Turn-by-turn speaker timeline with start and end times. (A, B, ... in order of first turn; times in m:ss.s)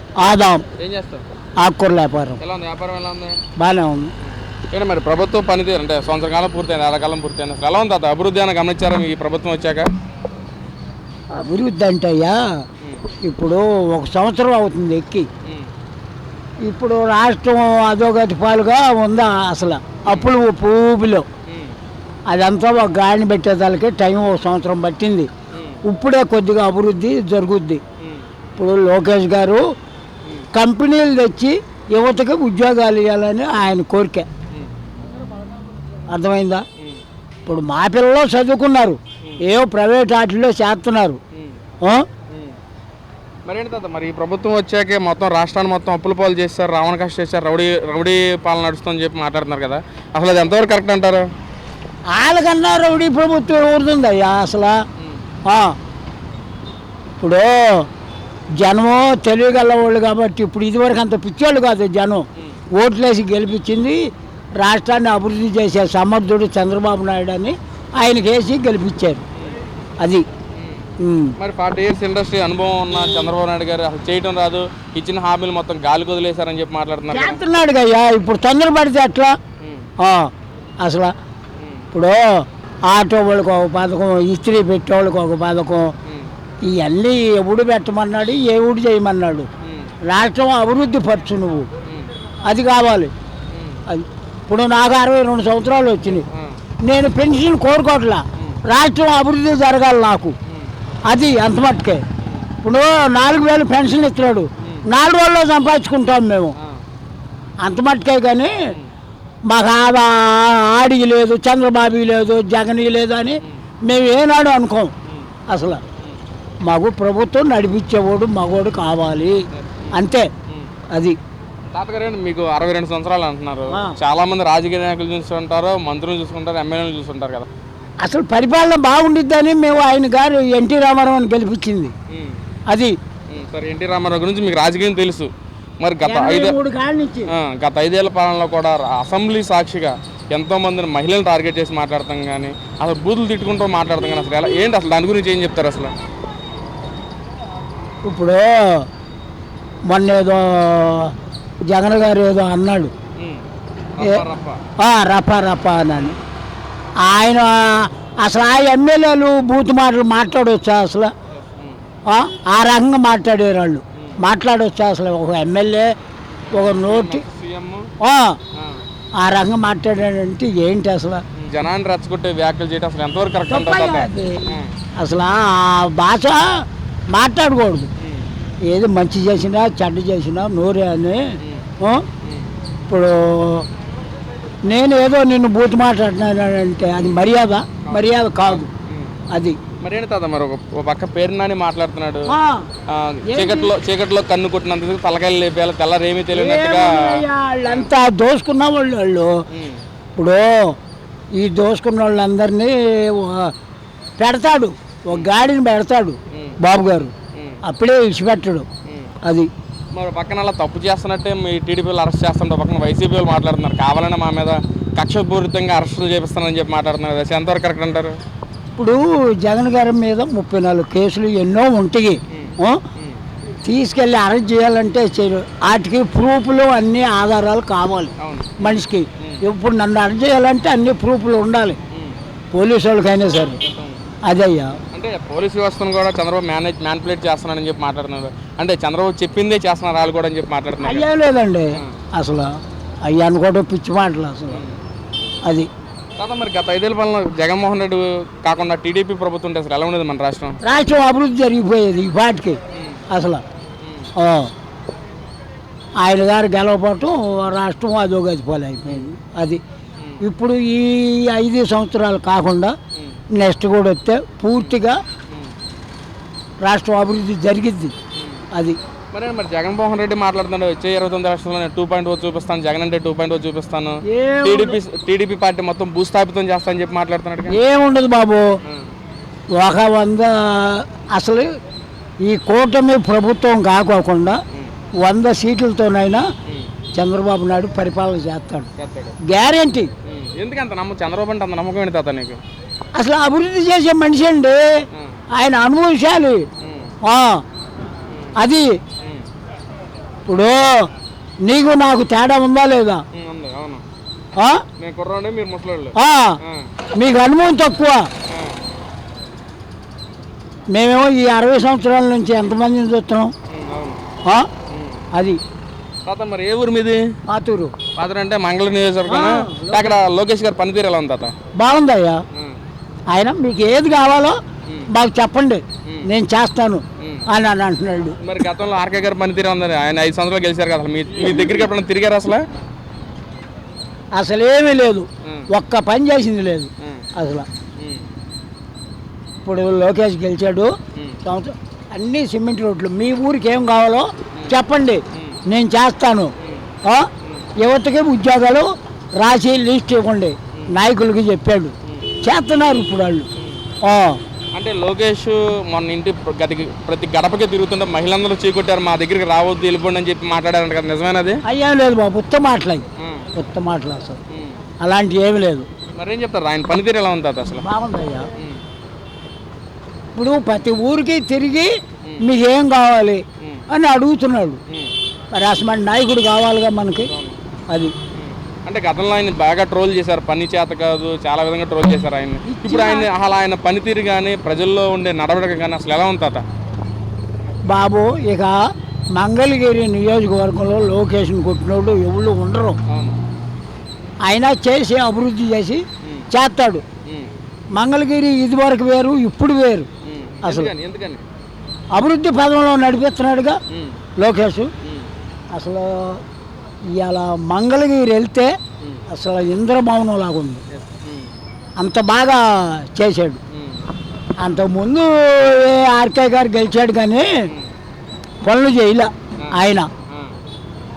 0:00.2-0:00.6 A
0:00.8-0:01.2 B
0:01.6-0:02.4 A
0:02.4-0:03.4 B
0:03.6-0:04.1 A
0:04.7-0:09.9 B
0:11.4-0:12.4 A
0:13.3-0:15.3 A
0:16.7-0:21.2 A
0:20.0-0:20.3 B
0:21.5-0:21.8 B
0:22.3-0:25.3 A
0:25.5-0:25.8 B
0:25.9-0:27.8 A
0:28.6-0:29.6 A
0:30.5-0:34.3 A
0:36.1-0:36.6 A
0:37.5-0:41.2 A
0:42.3-0:42.6 B
0:43.5-0:51.3 B
0:52.1-0:54.7 A
0:55.5-0:55.7 A
0:57.2-0:57.9 A
0:58.6-1:02.2 A
1:02.8-1:04.0 A
1:04.6-1:09.2 A
1:10.6-1:10.8 B
1:11.0-1:11.4 A
1:11.4-1:17.4 B
1:17.1-1:19.4 A
1:19.6-1:19.9 B
1:20.0-1:20.3 A
1:20.8-1:21.1 A
1:21.6-1:21.9 B
1:21.9-1:22.2 A
1:22.9-1:25.9 A
1:26.6-1:29.5 A
1:29.6-1:29.9 B
1:30.1-1:31.7 A
1:31.8-1:32.1 B
1:32.5-1:33.1 A
1:33.5-1:33.8 B
1:33.9-1:36.3 A
1:36.0-1:36.6 B
1:36.8-1:40.4 A
1:41.1-1:42.0 A
1:42.6-1:46.6 A
1:47.6-1:48.6 A
1:49.5-1:54.9 A
1:55.5-1:55.8 A
1:56.7-1:59.4 A
1:59.9-2:00.3 A
2:01.7-2:07.5 B
2:03.7-2:04.0 A
2:08.0-2:11.9 A
2:12.1-2:12.4 B
2:13.3-2:15.3 B
2:15.8-2:16.6 B
2:16.0-2:17.3 A
2:17.3-2:25.9 B
2:28.1-2:28.9 A
2:29.9-2:31.1 A
2:31.7-2:32.9 A
2:33.2-2:34.6 B
2:34.8-2:36.2 A
2:36.0-2:36.2 B
2:37.0-2:41.1 A
2:41.4-2:41.8 B
2:42.1-2:45.9 A
2:46.5-2:47.9 B
2:46.5-2:47.2 A
2:48.0-2:48.4 A
2:48.6-2:48.8 B
2:49.2-2:51.2 A
2:51.4-2:54.7 B
2:53.5-2:54.4 A
2:55.0-2:56.4 A
2:57.1-2:57.9 A
2:58.0-2:58.3 B
2:58.7-3:01.3 A
3:02.2-3:02.5 B
3:02.9-3:03.7 A
3:04.7-3:08.7 A
3:07.0-3:07.3 B
3:07.9-3:09.2 B
3:09.8-3:12.3 B
3:12.3-3:12.7 A
3:12.9-3:17.9 B
3:13.3-3:13.7 A
3:16.3-3:19.3 A
3:19.5-3:19.8 B
3:20.2-3:20.7 A
3:21.4-3:23.5 A
3:24.2-3:27.1 A
3:27.3-3:27.6 B
3:27.6-3:28.7 A
3:28.9-3:29.1 B
3:30.0-3:38.2 B
3:38.8-3:42.8 A
3:42.3-3:43.2 B
3:43.7-3:51.8 A
3:48.2-3:49.4 B
3:51.9-3:52.2 B
3:52.5-3:53.6 A
3:53.6-3:54.0 B
3:54.3-3:54.8 A
3:54.9-4:01.0 B
4:00.8-4:02.5 A
4:03.0-4:04.6 A
4:04.5-4:04.8 B
4:06.2-4:10.6 B
4:10.6-4:12.6 A
4:12.7-4:13.0 B
4:13.1-4:13.4 A
4:13.8-4:14.1 B
4:14.2-4:14.5 A
4:16.0-4:19.6 A
4:18.9-4:19.1 B
4:20.2-4:22.7 A
4:23.4-4:25.0 A
4:26.6-4:27.9 A
4:28.2-4:28.4 B
4:29.1-4:37.6 B
4:34.1-4:34.8 A
4:37.5-4:38.4 A
4:38.6-4:38.9 B
4:39.6-4:41.5 A
4:42.3-4:44.4 A
4:45.0-4:46.2 A
4:47.0-4:48.7 A
4:48.8-4:49.2 B
4:49.3-4:49.9 A
4:50.1-4:52.4 B
4:53.0-4:54.6 A
4:55.4-4:56.4 A
4:56.6-4:56.9 B
4:57.0-4:57.4 A
4:58.4-4:58.7 A
5:00.3-5:00.9 A
5:01.4-5:03.0 A
5:03.1-5:03.8 B
5:04.8-5:06.7 B
5:06.0-5:06.4 A
5:07.0-5:08.1 A
5:08.3-5:08.6 B
5:10.7-5:13.3 A
5:13.5-5:14.0 B
5:14.7-5:15.0 B
5:16.1-5:17.1 B
5:17.3-5:17.7 A
5:18.0-5:21.3 B
5:19.1-5:20.0 A
5:21.6-5:22.2 A
5:22.3-5:22.6 B
5:23.1-5:24.4 A
5:24.9-5:28.2 A
5:27.0-5:27.3 B
5:28.2-5:32.4 B
5:34.2-5:37.5 A
5:37.8-5:38.1 B
5:39.4-5:40.7 A
5:41.2-5:46.3 A
5:45.1-5:45.4 B
5:46.4-5:46.7 B
5:47.6-5:48.7 A
5:49.2-5:53.3 A
5:51.9-5:52.8 B
5:53.8-5:54.2 A
5:54.6-6:01.4 B
6:01.5-6:02.8 A
6:03.0-6:03.3 B
6:03.4-6:04.2 A
6:04.3-6:04.6 B
6:04.8-6:05.7 A
6:06.0-6:07.6 B
6:07.6-6:08.3 A
6:10.2-6:14.6 A
6:15.3-6:17.1 A
6:17.1-6:17.4 B
6:18.1-6:26.4 B
6:22.5-6:23.1 A
6:27.7-6:28.5 A
6:29.2-6:32.8 A
6:32.9-6:33.2 B
6:34.2-6:36.8 A
6:36.0-6:36.3 B
6:37.1-6:37.3 B
6:37.8-6:39.9 A
6:40.0-6:41.2 B
6:40.4-6:40.7 A
6:42.0-6:43.6 A
6:43.7-6:44.0 B
6:44.2-6:44.7 A
6:44.8-6:45.1 B
6:45.5-6:46.2 A
6:46.9-6:48.5 A
6:49.1-6:50.6 A
6:50.7-6:51.3 B
6:51.8-6:53.4 A
6:53.5-6:53.8 B
6:54.4-6:57.3 A
6:58.4-6:59.9 A
7:00.1-7:00.3 B